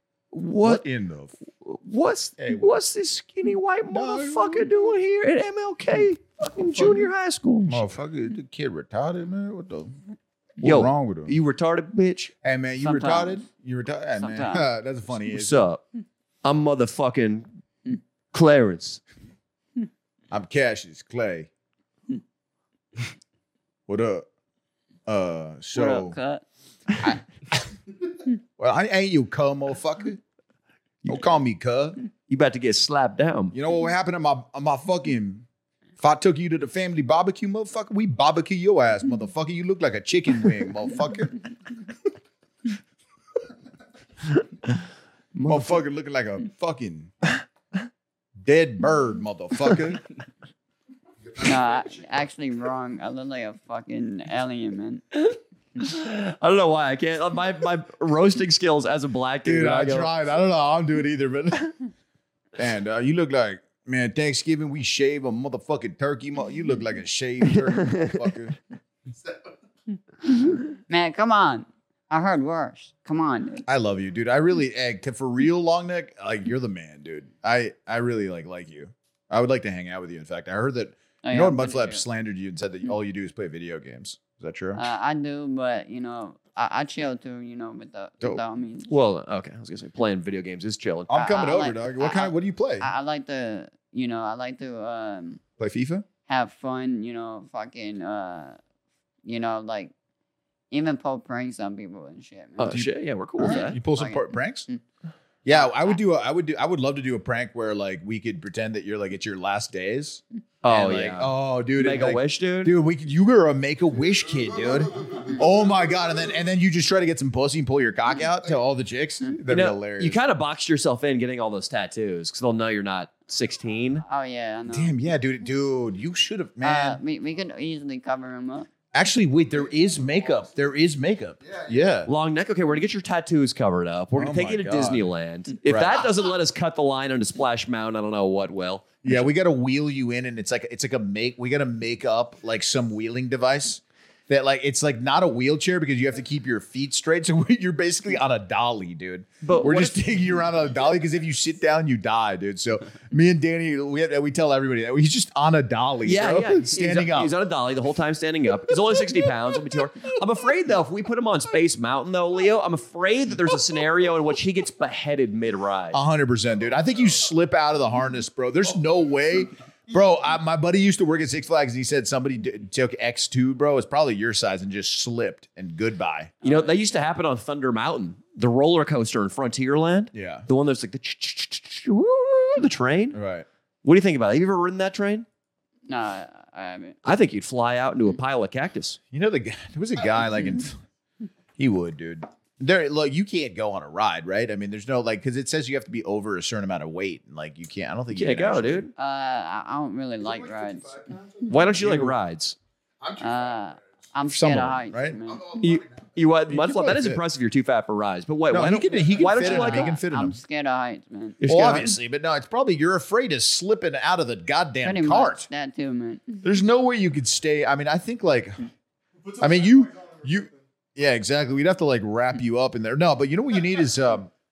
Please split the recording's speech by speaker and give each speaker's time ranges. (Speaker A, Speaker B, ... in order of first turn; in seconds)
Speaker A: 0.3-0.8, 1.6-7.8, 10.6-12.3, 15.3-15.8, 16.4-17.5, 18.3-19.0, 32.3-33.5, 45.3-45.8, 55.2-60.1, 67.6-68.2, 88.9-91.1, 102.6-103.8, 110.6-112.7, 119.5-124.0, 132.1-139.3, 149.4-150.0, 156.0-166.0, 176.4-183.2, 183.8-185.3, 187.1-189.0, 198.1-198.9, 201.5-202.6, 205.6-210.0, 211.4-211.9
Speaker B: 0.6-1.4, 2.4-2.8, 3.9-4.7, 6.8-7.1, 7.7-10.0, 10.6-11.3, 12.4-15.7, 20.3-21.5, 23.9-24.3, 25.1-26.2, 28.6-30.2, 31.1-32.0, 33.5-35.5, 36.0-41.4, 45.4-47.4, 48.4-50.0, 59.4-61.7, 62.6-68.6, 73.7-84.8, 91.1-92.9, 95.6-96.1, 103.4-104.7, 105.5-120.2, 124.7-127.0, 128.9-132.1, 134.2-135.1, 135.7-136.1, 139.0-157.3, 158.9-160.0, 165.9-176.4, 180.1-180.5, 183.1-183.5, 189.1-190.8, 191.6-198.9, 201.7-202.2, 204.3-205.2, 206.5-207.2, 208.5-210.4, 211.4-215.5, 216.4-218.7, 219.4-224.3
Speaker C: 12.8-13.4, 14.2-14.7, 25.7-26.4, 51.4-55.0, 70.9-73.6, 81.2-82.0, 84.8-88.9, 91.1-95.4, 96.3-98.6, 99.2-99.9, 100.7-102.8, 103.4-104.8, 105.5-106.0, 124.0-125.0, 126.6-128.7, 176.4-176.8, 185.9-187.0, 199.0-201.0, 203.2-205.5, 209.4-211.4, 214.8-216.4
Speaker D: 51.3-52.0, 114.9-115.8, 129.6-130.5, 131.4-132.1, 200.2-201.8, 203.0-204.1, 205.1-206.1, 209.0-209.3, 219.3-220.6